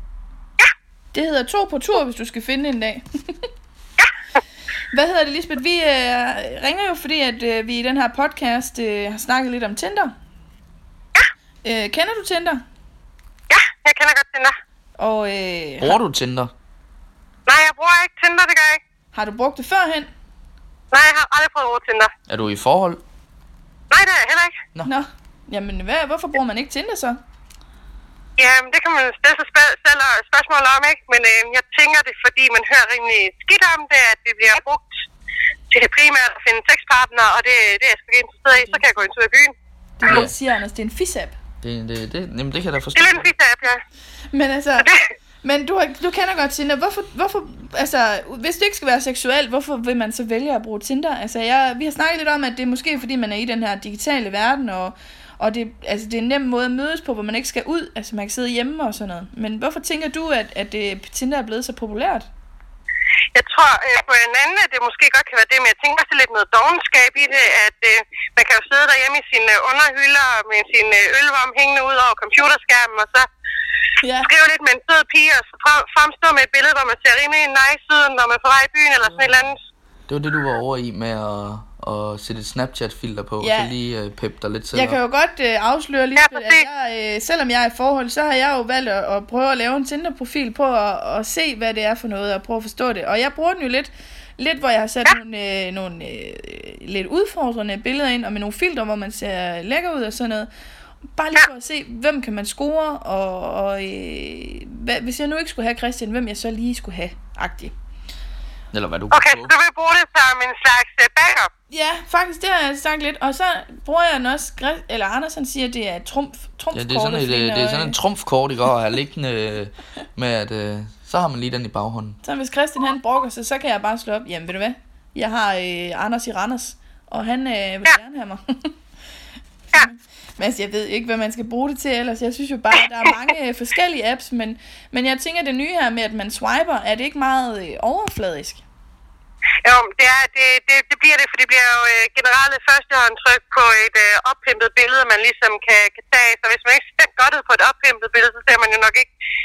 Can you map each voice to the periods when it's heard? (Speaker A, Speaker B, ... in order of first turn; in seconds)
Speaker A: 1.1-3.5, 4.9-10.1, 11.6-12.6, 15.0-16.0, 19.1-20.1, 24.8-27.2, 40.0-41.4, 44.3-44.9, 45.4-62.3, 74.0-74.3, 83.4-83.7, 84.7-100.5, 101.1-107.7, 111.7-118.0, 122.2-128.7, 129.7-138.6
Speaker B: 13.5-14.5, 17.5-18.8, 20.9-22.1, 23.9-24.5, 28.4-34.9, 35.7-39.5, 42.9-43.8, 63.3-73.3, 74.2-79.6, 86.2-86.7, 109.1-111.5, 139.6-149.1
Speaker C: 15.8-16.5, 22.3-23.0, 40.1-40.3, 41.6-43.3, 79.2-79.5, 80.1-85.0, 108.7-109.5, 116.7-122.2